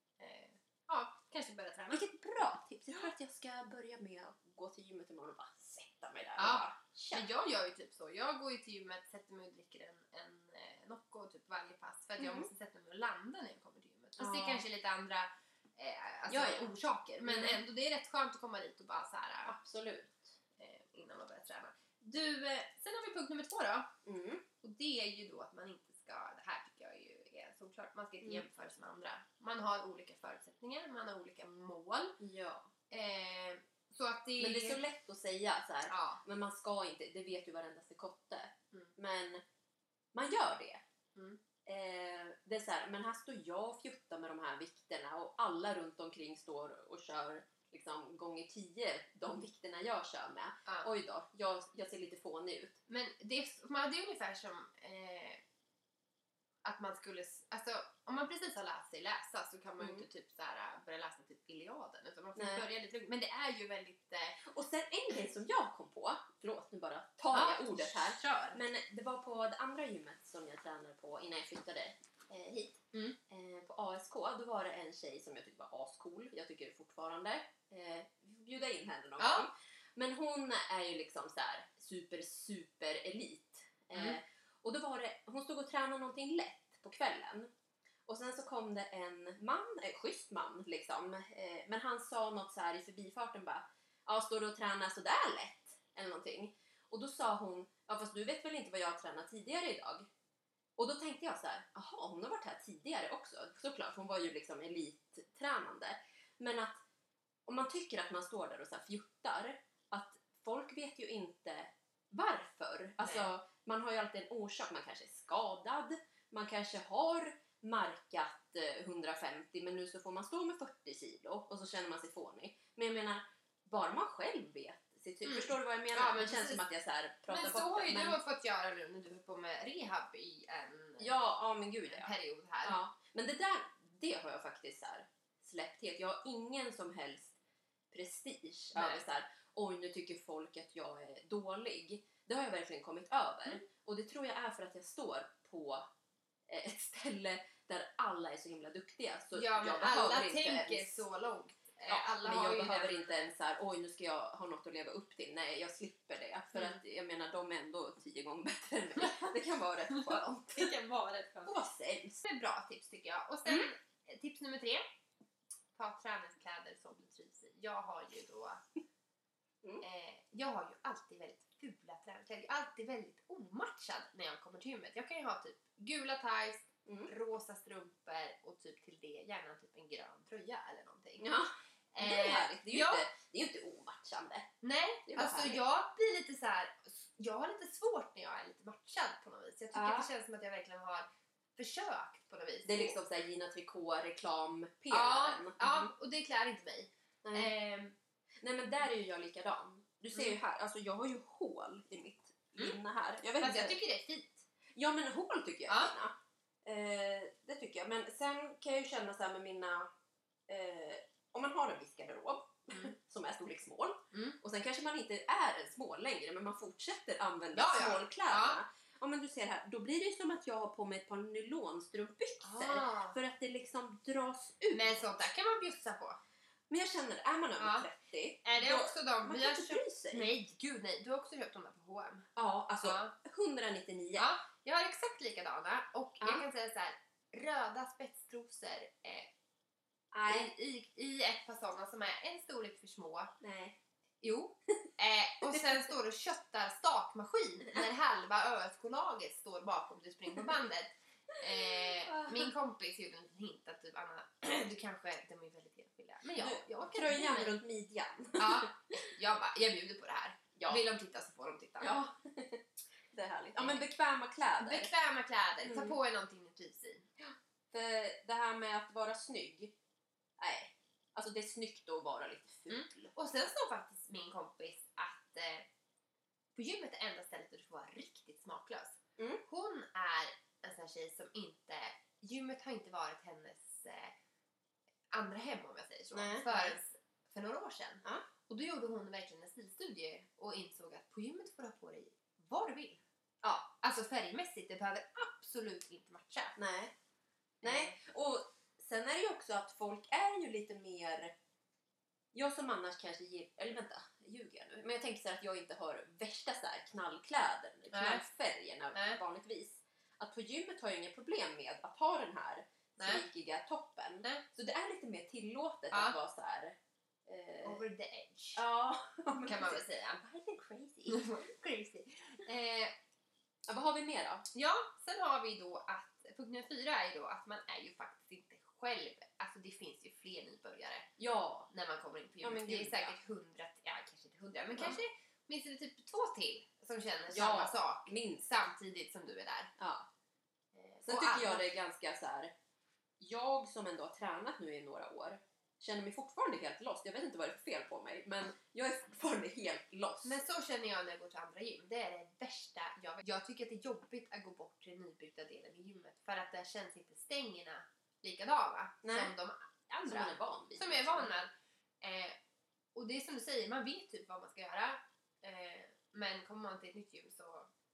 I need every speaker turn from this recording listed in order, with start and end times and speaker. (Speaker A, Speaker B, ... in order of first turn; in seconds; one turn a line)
Speaker A: 0.2-2.1
Speaker B: 1.9-7.2
Speaker A: 6.4-19.5
Speaker B: 12.2-12.5
Speaker B: 14.2-14.6
Speaker B: 16.3-16.7
Speaker B: 17.2-17.6
Speaker B: 19.4-20.4
Speaker A: 20.6-23.9
Speaker B: 24.0-24.4
Speaker A: 24.6-32.2
Speaker B: 32.2-32.7
Speaker A: 32.9-34.8
Speaker B: 34.4-39.4
Speaker A: 35.9-36.2
Speaker B: 40.1-40.8
Speaker B: 41.6-52.8
Speaker A: 52.9-55.4
Speaker A: 56.6-64.4
Speaker B: 59.8-60.0
Speaker B: 62.4-62.6
Speaker B: 64.4-87.5
Speaker A: 67.3-68.6
Speaker A: 79.2-79.5
Speaker A: 83.9-84.2
Speaker B: 88.1-100.1
Speaker B: 100.8-106.8
Speaker B: 107.5-128.2
Speaker A: 113.0-113.3
Speaker A: 125.2-126.6
Speaker A: 127.3-131.1
Speaker B: 131.0-137.3
Speaker A: 131.9-132.8
Speaker B: 137.9-145.8
Speaker A: 138.7-139.0
Speaker B: 146.5-151.1
Speaker A: 149.3-153.1
Speaker B: 151.9-160.7
Speaker A: 156.5-156.8
Speaker A: 159.9-161.6
Speaker B: 161.4-162.2
Speaker A: 162.2-164.8
Speaker A: 165.7-168.6
Speaker A: 169.8-181.3
Speaker B: 176.8-177.1
Speaker B: 181.2-184.5
Speaker A: 181.9-183.1
Speaker A: 184.6-193.0
Speaker B: 185.1-185.6
Speaker B: 189.7-190.1
Speaker B: 192.6-195.9
Speaker A: 194.9-197.9
Speaker B: 197.2-197.5
Speaker B: 198.4-203.8
Speaker A: 203.4-204.4
Speaker B: 204.7-209.9
Speaker B: 210.5-225.0
Speaker A: 214.1-214.4
Speaker A: 217.5-218.6
Speaker A: 222.4-223.2
Speaker A: 224.7-226.2
Speaker B: 226.7-230.3
Speaker A: 227.6-227.9
Speaker A: 228.4-232.3
Speaker B: 232.3-234.3
Speaker A: 232.8-233.1
Speaker A: 234.2-239.3
Speaker B: 240.1-240.5
Speaker A: 240.2-243.3
Speaker B: 243.4-243.8
Speaker A: 244.2-257.6
Speaker B: 251.5-252.5
Speaker B: 256.4-258.7
Speaker A: 258.4-261.9
Speaker B: 260.5-260.9
Speaker B: 261.8-264.9
Speaker A: 263.6-263.8
Speaker A: 264.6-267.1
Speaker B: 265.6-265.9
Speaker B: 267.2-269.7
Speaker B: 270.4-273.1
Speaker A: 272.7-275.7
Speaker A: 276.5-284.1
Speaker B: 279.2-279.4
Speaker A: 285.1-293.0
Speaker B: 286.1-286.8
Speaker B: 293.4-293.7
Speaker A: 293.8-296.6
Speaker B: 296.6-296.9
Speaker B: 297.6-301.3
Speaker A: 297.6-298.0
Speaker B: 302.3-317.8
Speaker A: 307.9-308.2
Speaker A: 308.9-309.2
Speaker A: 313.0-313.2
Speaker A: 317.6-318.6
Speaker B: 318.6-321.4
Speaker A: 319.4-320.2
Speaker A: 321.1-322.9
Speaker B: 323.7-324.5
Speaker A: 324.5-331.1
Speaker B: 331.2-331.7
Speaker A: 331.7-339.7
Speaker B: 332.4-333.1
Speaker B: 334.7-335.0
Speaker B: 337.3-338.4
Speaker B: 339.8-340.1
Speaker A: 340.7-341.7
Speaker B: 341.0-342.5
Speaker B: 343.2-350.4
Speaker A: 350.2-362.4
Speaker B: 359.0-359.3
Speaker B: 360.0-361.3
Speaker A: 362.9-367.7